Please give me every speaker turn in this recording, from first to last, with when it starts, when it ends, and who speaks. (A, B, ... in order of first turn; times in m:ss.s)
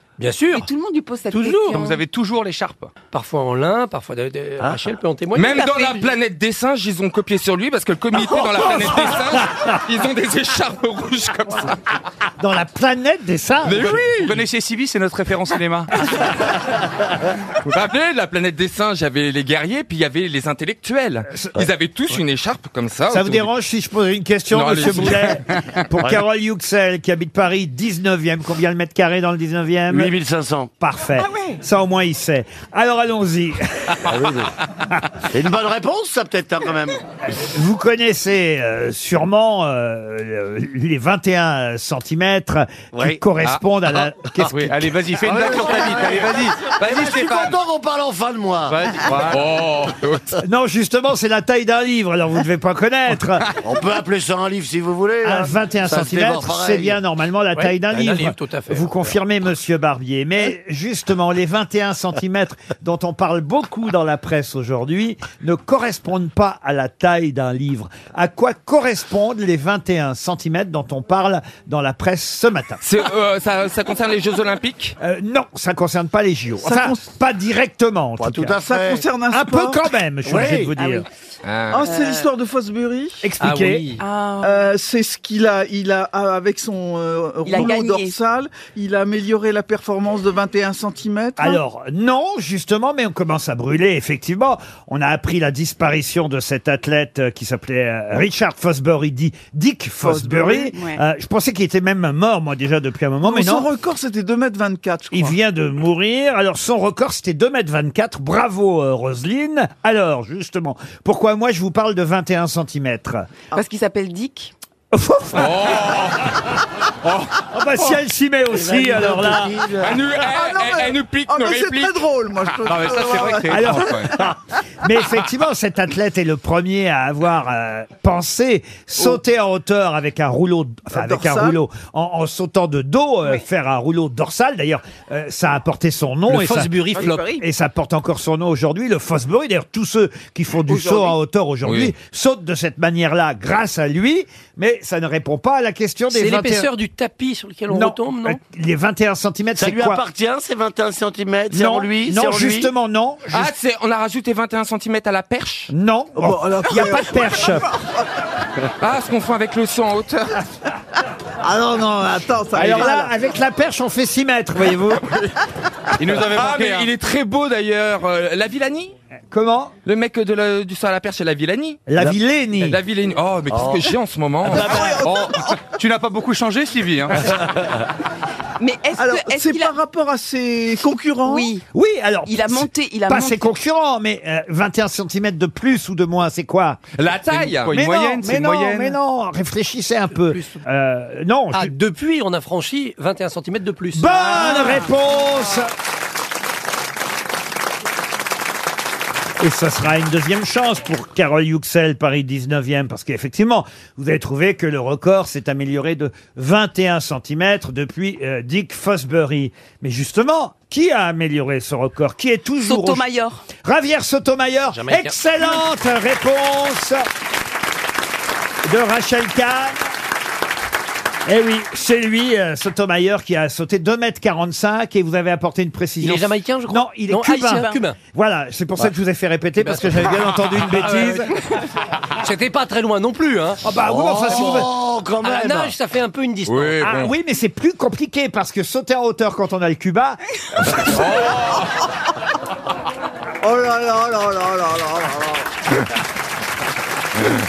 0:00.2-0:00.7 A
0:00.5-0:02.0 B
0:01.3-0:02.9 C
0:01.4-0:01.7 A
0:03.1-0:05.7 A
0:05.3-0:11.8 D
0:05.6-0:06.0 B
0:12.4-0:14.0 E
0:13.7-0:16.0 C
0:13.7-0:14.4 D
0:17.6-0:23.5 D
0:21.3-0:21.6 E
0:23.1-0:30.1 E
0:24.5-0:25.4 D
0:29.9-0:30.7 F
0:30.8-0:34.0 E
0:34.0-0:34.6 F
0:35.3-0:37.0 F
0:37.3-0:45.1 E
0:43.4-0:47.6 C
0:45.2-0:49.6 F
0:48.7-0:50.4 C
0:50.4-0:53.5 E
0:53.6-0:57.0 F
0:55.2-1:12.8 E
0:57.5-0:59.1 A
1:12.8-1:15.0 D
1:15.0-1:18.6 E
1:16.6-1:17.1 G
1:18.2-1:19.0 F
1:18.6-1:19.9 G
1:19.3-1:21.1 E
1:20.2-1:20.8 F
1:20.8-1:21.0 B
1:21.4-1:21.9 D
1:21.7-1:23.3 G
1:21.8-1:22.3 B
1:23.2-1:23.8 E
1:23.4-1:24.0 A
1:24.0-1:24.7 B
1:24.4-1:31.6 G
1:27.4-1:28.2 B
1:31.4-1:43.7 E
1:40.0-1:40.7 G
1:40.6-1:41.0 B
1:43.2-1:45.4 G
1:45.1-1:53.3 E
1:53.5-1:54.5 B
1:54.9-1:55.8 E
1:55.3-1:56.4 D
1:57.1-1:57.4 D
1:57.5-1:59.6 E
1:58.5-2:00.0 F
1:59.8-2:02.0 D
2:00.3-2:03.8 G
2:02.6-2:04.2 C
2:03.5-2:04.3 E
2:04.8-2:16.7 E
2:10.9-2:11.6 G
2:16.3-2:17.4 A
2:17.0-2:17.4 B
2:17.4-2:26.7 E
2:20.7-2:21.1 B
2:21.6-2:21.9 D
2:26.1-2:28.4 A
2:27.7-2:30.0 E
2:29.6-2:32.7 F
2:31.5-2:33.5 E
2:33.3-2:35.7 D
2:35.7-2:37.7 E
2:36.2-2:37.7 G
2:38.8-2:40.4 D
2:41.4-2:43.1 G
2:42.5-2:45.0 E
2:46.0-2:46.9 C
2:46.1-2:48.9 D
2:49.3-2:49.8 E
2:49.8-2:51.9 D
2:51.9-2:52.8 E
2:52.6-2:54.9 D
2:53.2-2:53.6 C
2:53.5-2:53.9 F
2:54.4-2:55.6 G
2:54.9-2:57.3 C
2:58.6-2:59.8 B
2:59.0-3:01.5 G
3:01.2-3:01.6 B
3:01.7-3:06.8 E
3:02.3-3:03.5 B
3:07.0-3:07.8 D
3:07.3-3:09.0 C
3:07.6-3:11.7 E
3:10.1-3:10.6 A
3:11.5-3:14.7 A
3:13.9-3:15.7 E
3:19.4-3:33.0 E
3:32.6-3:33.5 B
3:33.6-3:37.1 E
3:34.7-3:35.2 A
3:38.6-3:39.8 E
3:41.3-3:51.3 E
3:46.0-3:48.0 A
3:47.5-3:47.8 B
3:49.6-3:51.5 A
3:52.2-3:53.6 A
3:53.6-3:54.7 E
3:53.9-3:55.7 F
3:54.3-3:54.6 A
3:55.2-3:56.9 A
3:56.6-3:56.9 D
3:56.8-4:00.8 E
4:00.9-4:01.7 D
4:03.4-4:05.4 G